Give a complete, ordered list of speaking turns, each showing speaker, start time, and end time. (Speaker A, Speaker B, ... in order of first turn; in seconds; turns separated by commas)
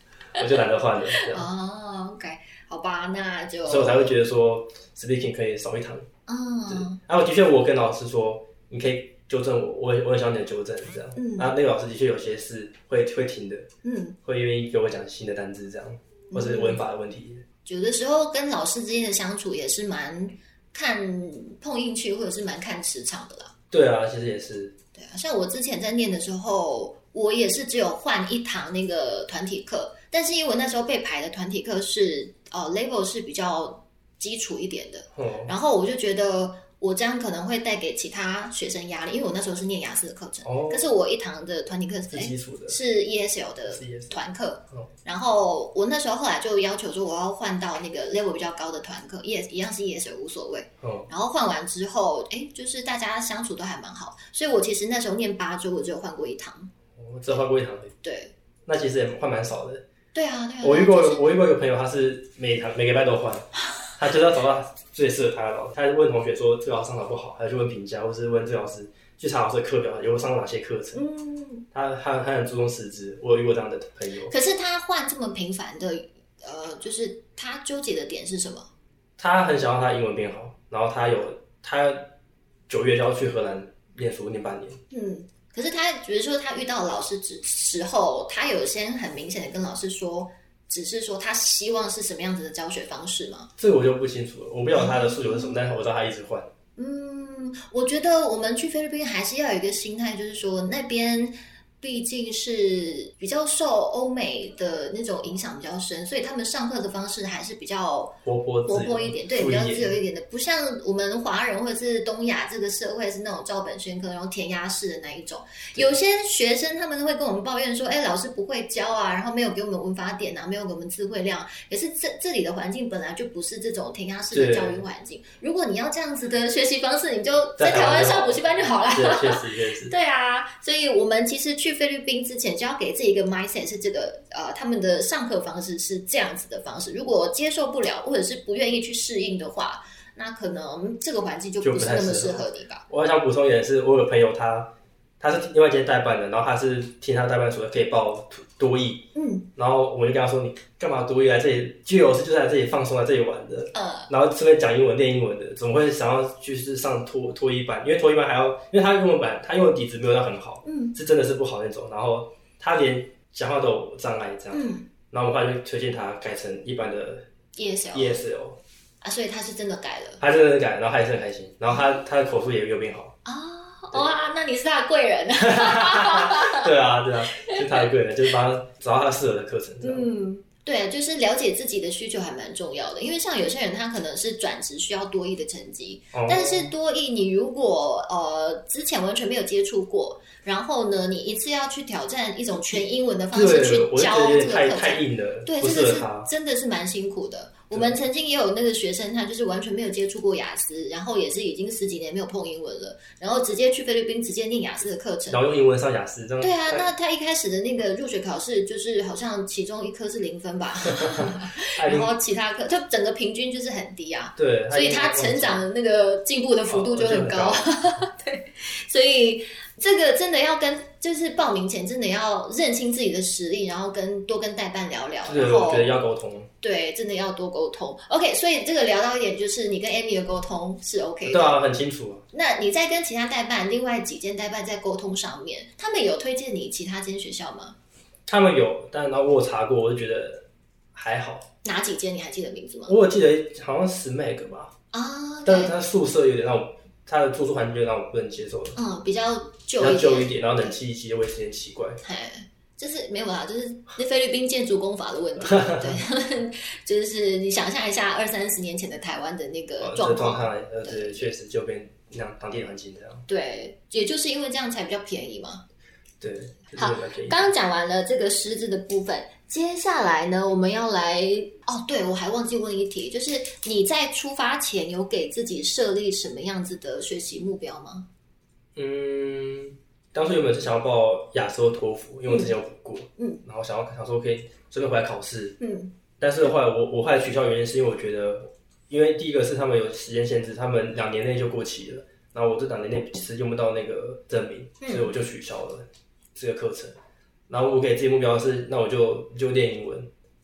Speaker A: 0.3-1.5, Speaker B: 1.1-4.1, Speaker A: 3.6-6.1, Speaker B: 6.3-7.0, Speaker A: 6.7-13.7, Speaker B: 11.2-11.5, Speaker B: 13.8-14.2, Speaker A: 14.2-17.4, Speaker B: 16.3-16.8, Speaker B: 17.6-23.5, Speaker A: 23.7-24.7, Speaker B: 24.9-56.7, Speaker A: 35.1-35.5, Speaker A: 40.4-40.8, Speaker A: 42.1-42.8, Speaker A: 43.7-44.2, Speaker A: 50.8-51.1, Speaker A: 57.0-57.9, Speaker B: 58.0-58.3, Speaker A: 58.6-59.8, Speaker B: 60.1-61.3, Speaker A: 60.6-71.0, Speaker B: 70.9-71.6, Speaker A: 71.7-74.3, Speaker B: 74.3-78.7, Speaker A: 79.2-82.1, Speaker A: 82.7-84.8, Speaker B: 84.9-93.5, Speaker A: 93.6-96.5, Speaker B: 94.7-95.6, Speaker B: 96.8-142.8, Speaker A: 108.2-110.0, Speaker A: 124.3-124.8, Speaker A: 127.6-129.9, Speaker A: 141.6-167.2, Speaker B: 149.1-149.5, Speaker B: 153.7-154.1, Speaker B: 160.6-160.9, Speaker B: 164.5-164.9, Speaker B: 167.6-168.2, Speaker A: 167.9-168.6, Speaker B: 169.0-170.2, Speaker A: 170.2-173.1, Speaker B: 171.7-172.0, Speaker B: 173.2-176.7, Speaker A: 175.4-180.1, Speaker B: 177.3-177.8, Speaker B: 179.8-205.4, Speaker A: 186.1-186.7, Speaker A: 193.3-196.3, Speaker A: 197.7-198.0, Speaker A: 205.3-206.9, Speaker B: 206.4-226.0, Speaker A: 210.9-212.1, Speaker A: 214.4-215.6, Speaker A: 216.7-217.7, Speaker A: 225.2-226.5, Speaker B: 226.6-231.6, Speaker A: 231.2-232.2, Speaker B: 232.3-237.8, Speaker A: 238.3-241.4, Speaker B: 241.6-243.0, Speaker A: 242.9-244.7, Speaker B: 244.9-245.7, Speaker A: 245.4-248.8, Speaker B: 248.8-250.8, Speaker A: 249.8-252.0, Speaker B: 252.0-261.3, Speaker A: 255.4-256.0, Speaker A: 259.8-263.2, Speaker B: 263.3-265.6, Speaker A: 266.2-267.5, Speaker B: 266.7-278.1, Speaker A: 278.8-285.6, Speaker B: 282.3-282.5, Speaker B: 283.2-283.4, Speaker B: 285.6-285.9, Speaker A: 286.2-296.9, Speaker B: 294.8-295.1, Speaker A: 297.5-300.1